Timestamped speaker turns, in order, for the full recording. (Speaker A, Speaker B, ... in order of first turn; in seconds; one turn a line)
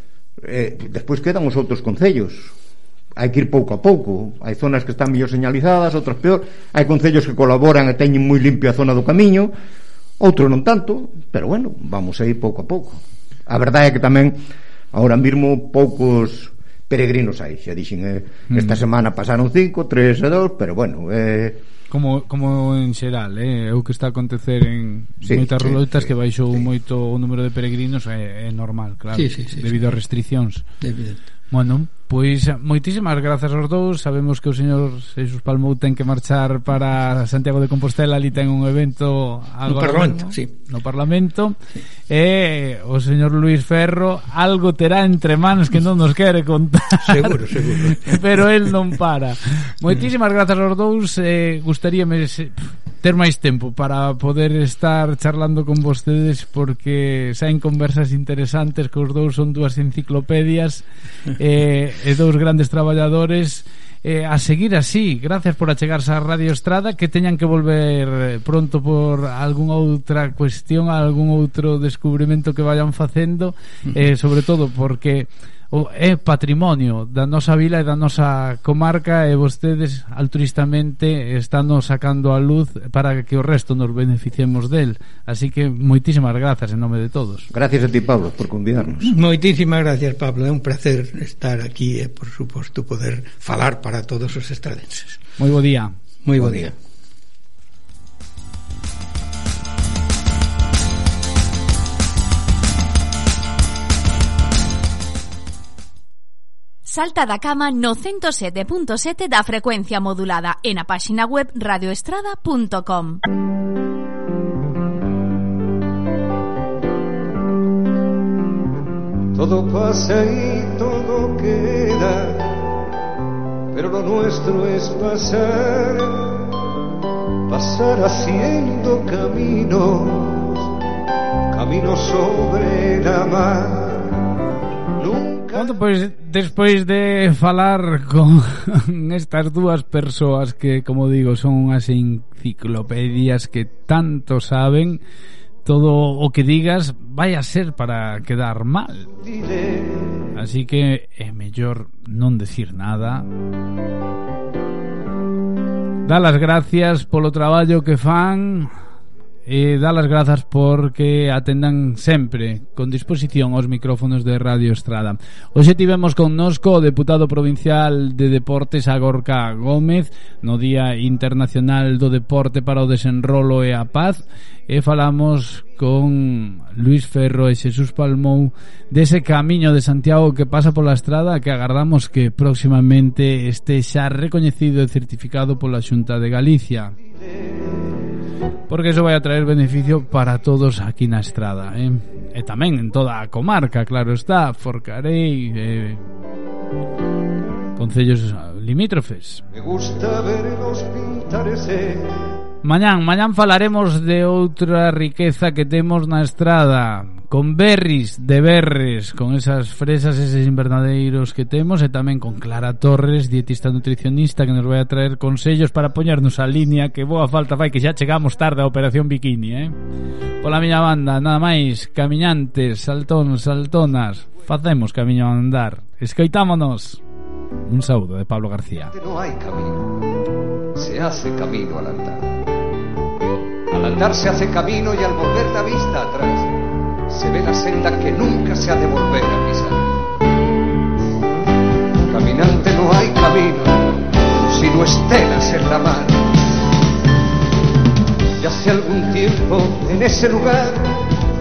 Speaker A: 0.4-2.5
Speaker A: 3.2-9.5
Speaker A: 10.2-14.4
Speaker A: 14.9-21.6
Speaker B: 18.5-18.8
Speaker B: 21.9-30.7
Speaker A: 25.2-26.1
Speaker C: 29.1-29.8
Speaker C: 30.8-31.2
Speaker B: 31.5-41.6
Speaker C: 39.6-40.5
Speaker B: 42.1-60.9
Speaker C: 47.0-48.2
Speaker B: 61.4-87.5
Speaker A: 87.5-89.1
Speaker C: 89.0-95.2
Speaker B: 95.4-95.9
Speaker C: 96.2-96.7
Speaker D: 106.9-113.2
Speaker E: 119.3-122.6
Speaker E: 123.7-126.4
Speaker E: 127.5-130.7
Speaker E: 131.5-134.2
Speaker E: 135.0-135.8
Speaker B: 135.5-145.0
Speaker B: 145.7-149.1
Speaker E: 149.2-150.2
Speaker B: 150.3-153.3
Speaker B: 156.1-158.7
Speaker B: 159.5-187.0
Speaker B: 188.7-196.0
Speaker B: 197.8-199.4
Speaker E: 199.5-202.2
Speaker B: 202.6-219.7
Speaker B: 220.4-227.0
Speaker B: 227.7-228.9
Speaker E: 228.9-230.0
Speaker E: 230.8-232.4
Speaker E: 233.7-236.5
Speaker E: 237.1-240.0
Speaker E: 242.1-246.3
Speaker E: 248.4-251.1